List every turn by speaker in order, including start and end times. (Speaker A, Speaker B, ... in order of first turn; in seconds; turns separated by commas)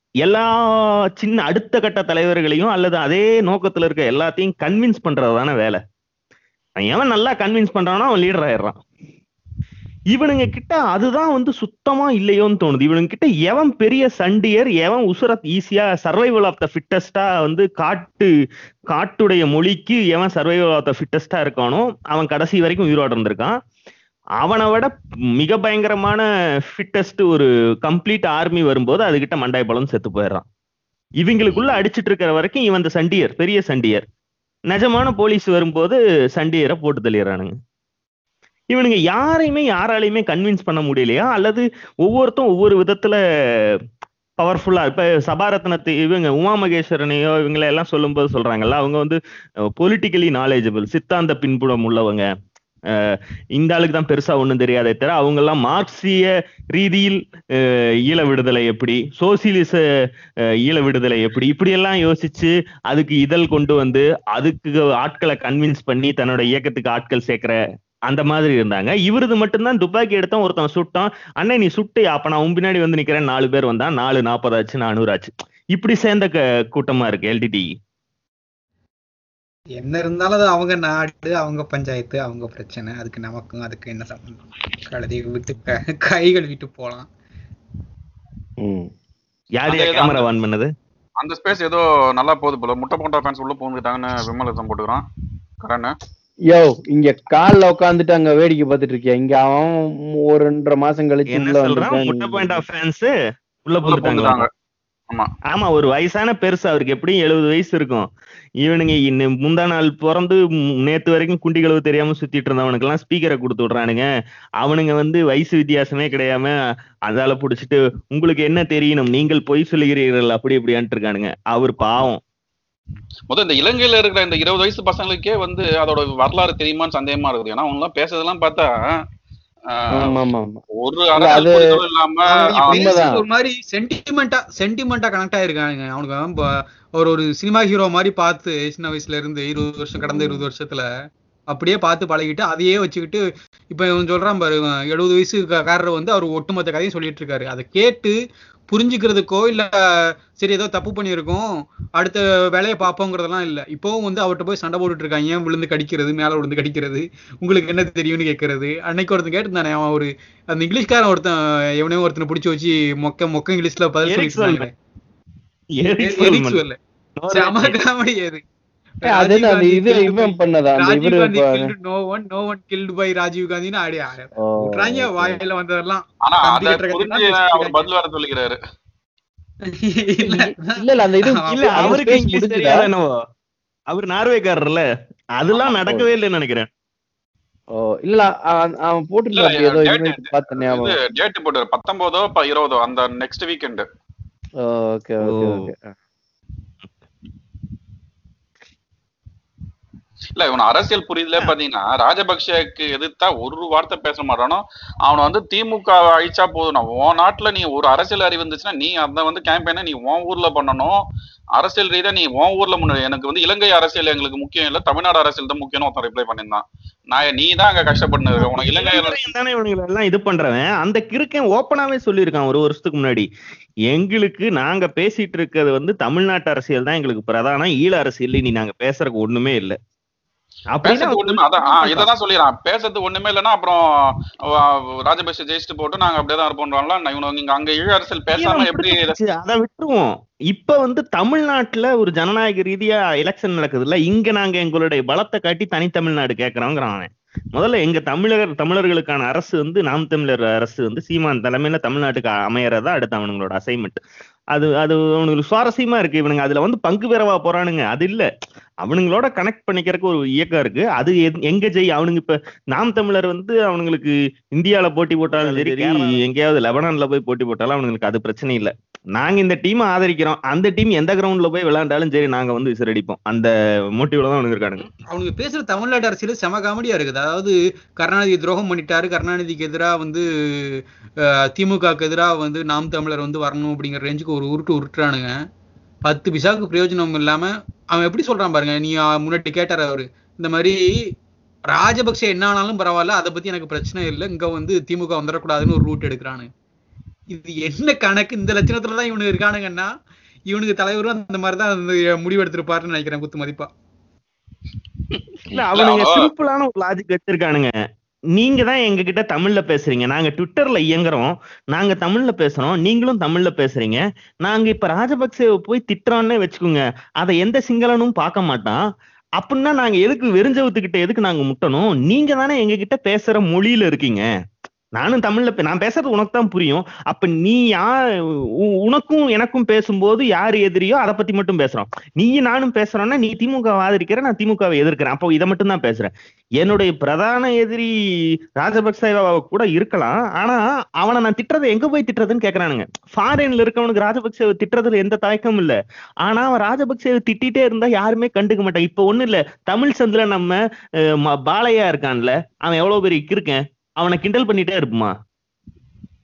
Speaker A: 0.2-5.8, Speaker A: 6.8-8.8, Speaker A: 10.1-18.3, Speaker A: 18.9-23.5, Speaker A: 24.4-30.4, Speaker A: 31.2-34.0, Speaker A: 34.7-37.5, Speaker A: 38.7-43.2, Speaker A: 44.4-49.2, Speaker A: 49.8-52.3, Speaker A: 52.9-59.8, Speaker A: 60.6-67.6, Speaker A: 68.1-77.7, Speaker B: 79.8-84.4, Speaker B: 84.9-87.1, Speaker C: 88.6-88.9, Speaker A: 89.6-90.7, Speaker D: 89.7-90.2, Speaker D: 91.2-95.0, Speaker D: 95.6-95.9, Speaker C: 96.5-102.6, Speaker A: 101.3-103.1, Speaker A: 103.6-104.5, Speaker D: 103.9-104.5, Speaker A: 105.5-108.1, Speaker A: 108.6-114.1, Speaker A: 114.6-116.5, Speaker A: 117.1-122.2, Speaker D: 123.3-128.7, Speaker D: 129.7-130.1, Speaker C: 129.9-130.6, Speaker D: 130.8-132.9, Speaker C: 131.1-131.6, Speaker B: 132.3-140.8, Speaker C: 132.5-133.2, Speaker C: 140.0-140.4, Speaker B: 141.5-148.2, Speaker B: 148.7-149.7, Speaker B: 150.3-151.4, Speaker B: 152.0-164.7, Speaker A: 164.0-164.7, Speaker A: 165.8-166.6, Speaker B: 166.0-166.8, Speaker A: 167.2-167.8, Speaker B: 167.3-168.4, Speaker B: 169.0-177.9, Speaker C: 169.0-171.7, Speaker C: 174.4-175.4, Speaker D: 176.2-178.6, Speaker B: 179.7-182.0, Speaker C: 180.2-182.9, Speaker A: 181.5-183.1, Speaker A: 183.9-184.8, Speaker A: 185.4-186.7, Speaker C: 185.8-186.1, Speaker C: 187.7-191.0, Speaker D: 189.3-193.9, Speaker C: 194.6-195.9, Speaker A: 195.2-195.7, Speaker D: 200.3-210.9, Speaker D: 211.6-219.2, Speaker A: 218.4-223.2, Speaker A: 223.9-229.8, Speaker A: 230.7-232.1, Speaker D: 230.8-233.8, Speaker D: 234.5-239.2, Speaker A: 238.4-254.0, Speaker A: 254.5-258.3, Speaker A: 258.8-274.9, Speaker B: 265.6-266.0, Speaker B: 275.1-285.3, Speaker B: 286.0-290.8, Speaker B: 291.7-296.5, Speaker B: 297.3-299.9, Speaker B: 300.5-303.7, Speaker A: 305.5-307.7, Speaker D: 305.7-306.3, Speaker A: 308.3-318.8, Speaker A: 319.4-324.2, Speaker A: 325.0-327.9, Speaker A: 328.8-337.9, Speaker A: 338.6-350.6, Speaker A: 351.2-355.1